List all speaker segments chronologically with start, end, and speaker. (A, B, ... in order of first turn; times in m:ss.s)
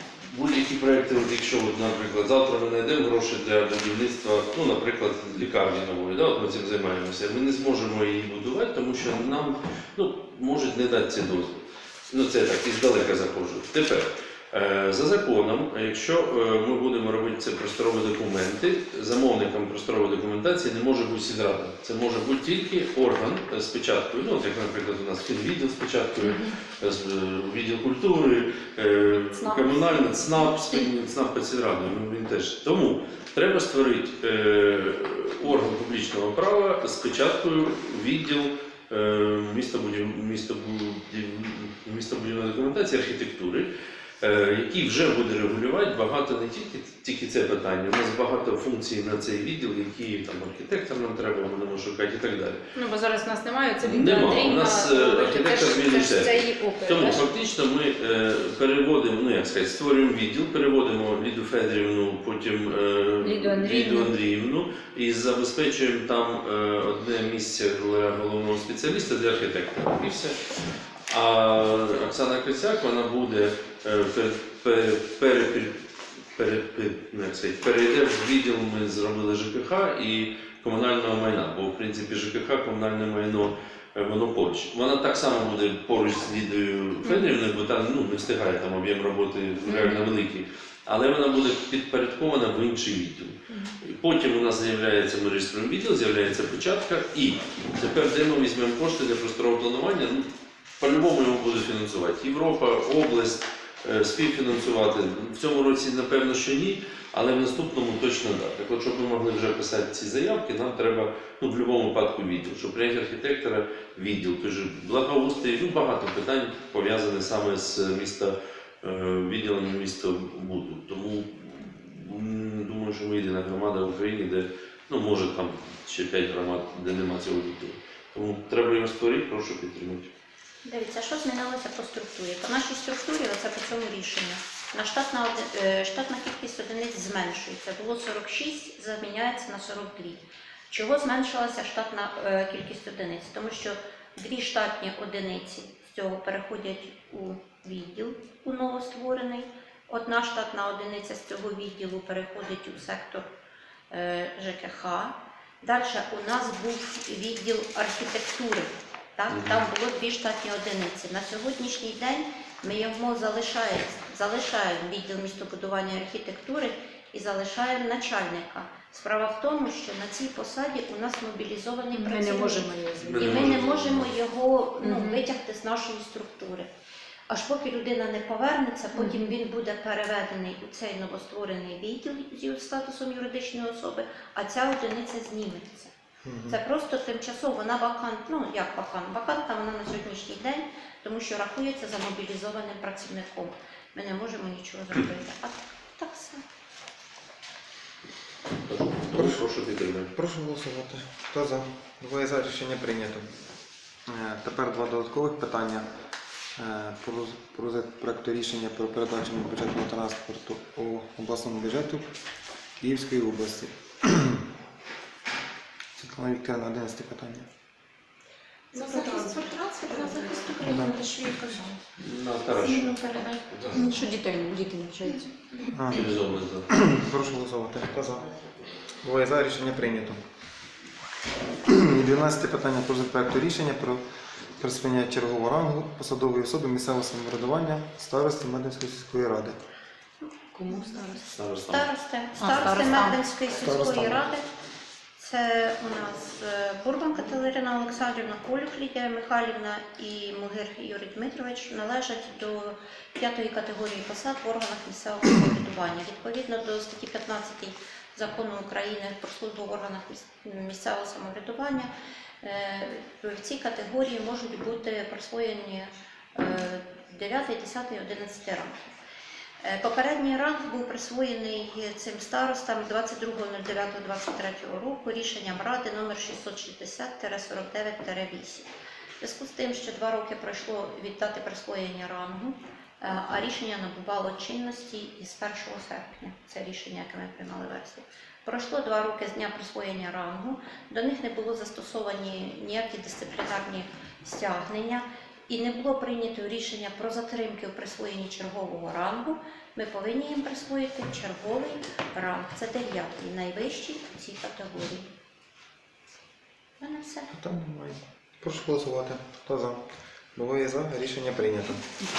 0:00.3-0:43.7 A
0:26.2-0:26.6 B
0:29.3-0:30.9 B
0:44.2-0:52.6 A
0:52.8-0:57.3 B
0:53.8-1:10.4 A
1:03.2-1:04.2 B
1:11.1-1:15.8 A
1:16.4-1:40.3 A
1:27.0-1:27.3 B
1:29.7-1:30.1 B
1:40.8-2:10.1 A
2:10.6-2:33.3 C
2:33.9-2:56.7 C
2:39.3-2:39.6 A
2:51.9-2:53.9 B
2:53.1-2:54.1 A
2:54.8-2:55.2 B
2:57.3-3:05.9 C
2:58.9-2:59.2 B
3:06.2-3:06.6 D
3:06.5-3:16.4 C
3:18.7-3:20.1 A
3:19.1-3:19.5 D
3:20.1-3:23.3 D
3:24.1-3:25.9 D
3:26.6-3:32.1 D
3:32.8-3:34.5 D
3:36.0-3:37.5 D
3:38.7-3:41.8 E
3:38.7-3:40.5 B
3:40.6-3:40.9 D
3:42.0-3:43.0 A
3:42.5-3:44.0 E
3:43.7-3:45.2 B
3:45.7-3:46.2 D
3:45.9-3:46.7 A
3:46.7-3:48.3 D
3:49.0-3:50.2 D
3:51.6-3:54.0 D
3:54.6-3:59.6 D
4:00.2-4:04.4 C
4:00.5-4:01.4 B
4:01.3-4:01.9 A
4:02.4-4:03.2 B
4:03.6-4:04.3 D
4:05.2-4:21.9 C
4:22.4-4:28.9 C
4:29.6-4:38.7 C
4:39.2-5:05.1 C
5:06.8-5:07.3 C
5:07.3-5:09.8 D
5:10.4-5:11.8 D